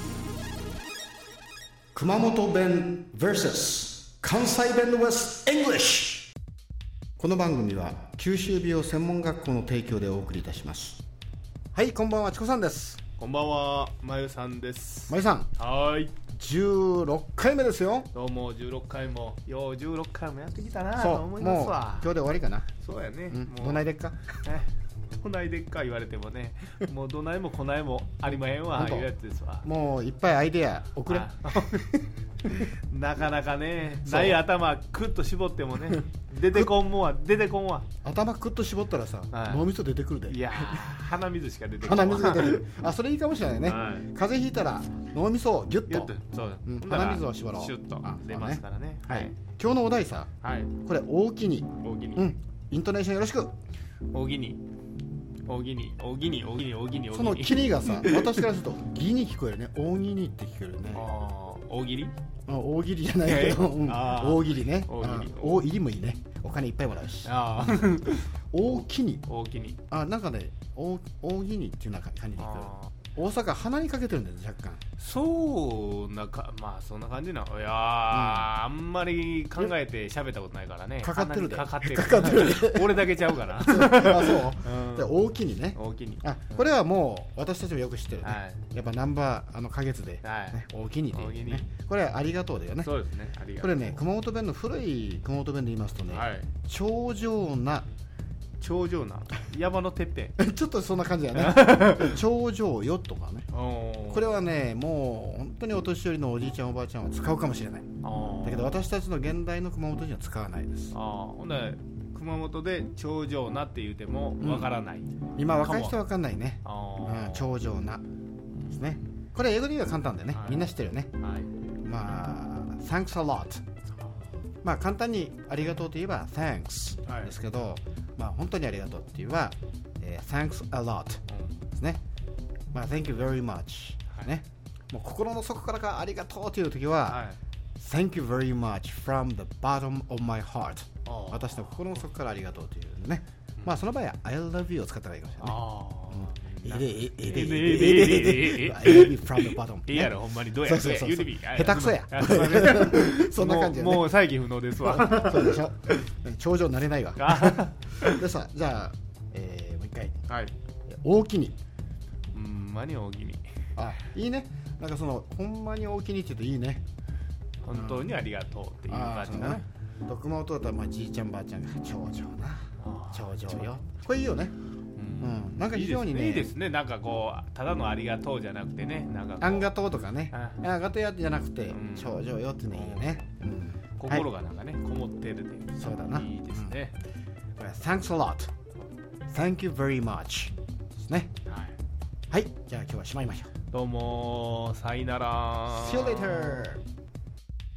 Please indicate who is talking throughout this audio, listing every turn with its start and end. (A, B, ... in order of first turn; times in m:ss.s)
0:02.0-0:06.3 A
0:07.2-0:11.0 A
0:11.7-0:13.0 A
0:13.2-0:16.2 B
0:15.1-0:15.5 A
0:16.3-0:18.1 A
0:18.1-0:22.1 B
0:21.0-0:22.7 A
0:22.7-0:29.7 B
0:23.3-0:24.4 A
0:28.7-0:29.1 A
0:29.6-0:32.0 A
0:31.1-0:31.9 B
0:32.5-0:37.9 B
0:34.0-0:34.4 A
0:38.0-0:40.9 A
0:39.3-0:39.7 B
0:40.3-0:42.6 B
0:41.8-0:46.1 A
0:43.6-0:44.1 B
0:45.9-0:49.3 B
0:46.7-0:53.5 A
0:50.4-0:50.8 B
0:51.8-0:52.3 B
0:54.1-0:54.6 B
0:55.5-0:58.4 B
0:57.1-1:01.1 A
1:00.9-1:02.1 B
1:02.5-1:08.0 A
1:03.2-1:05.7 B
1:07.2-1:08.3 B
1:08.5-1:09.2 A
1:09.3-1:09.8 B
1:09.9-1:14.8 A
1:12.4-1:13.0 B
1:15.0-1:25.1 B
1:18.1-1:18.5 A
1:21.0-1:32.9 A
1:25.8-1:26.7 B
1:28.2-1:28.7 B
1:30.2-1:30.6 B
1:31.1-1:31.7 B
1:32.8-1:34.0 B
1:33.6-1:37.9 A
1:36.1-1:36.5 B
1:38.6-1:40.4 B
1:40.4-1:43.5 A
1:41.4-1:42.2 B
1:43.5-1:44.4 B
1:44.1-1:47.9 A
1:48.0-1:48.8 B
1:48.4-1:51.0 A
1:50.9-1:56.0 B
1:54.4-1:54.7 A
1:55.4-1:58.0 A
1:56.6-1:57.6 B
1:58.7-2:01.1 A
2:00.3-2:01.5 B
2:01.8-2:03.6 A
2:04.6-2:12.0 A
2:07.1-2:07.3 B
2:11.3-2:11.6 B
2:12.7-2:17.2 A
2:17.1-2:17.4 B
2:17.8-2:34.2 A
2:21.0-2:21.9 B
2:25.4-2:35.6 B
2:34.8-2:40.3 A
2:37.2-2:38.2 B
2:40.9-2:41.6 A
2:42.3-2:43.4 B
2:43.8-2:46.8 A
2:47.6-2:49.6 B
2:47.7-2:48.1 A
2:48.9-2:54.6 A
2:52.8-2:53.8 B
2:55.0-2:59.7 B
2:55.2-2:56.5 A
2:59.4-3:04.3 A
3:00.3-3:00.6 B
3:01.7-3:03.2 B
3:04.0-3:07.0 B
3:05.8-3:06.8 A
3:07.6-3:08.5 A
3:09.3-3:11.4 A
3:11.5-3:11.8 B
3:12.3-3:13.5 A
3:13.7-3:16.6 B
3:15.7-3:16.8 A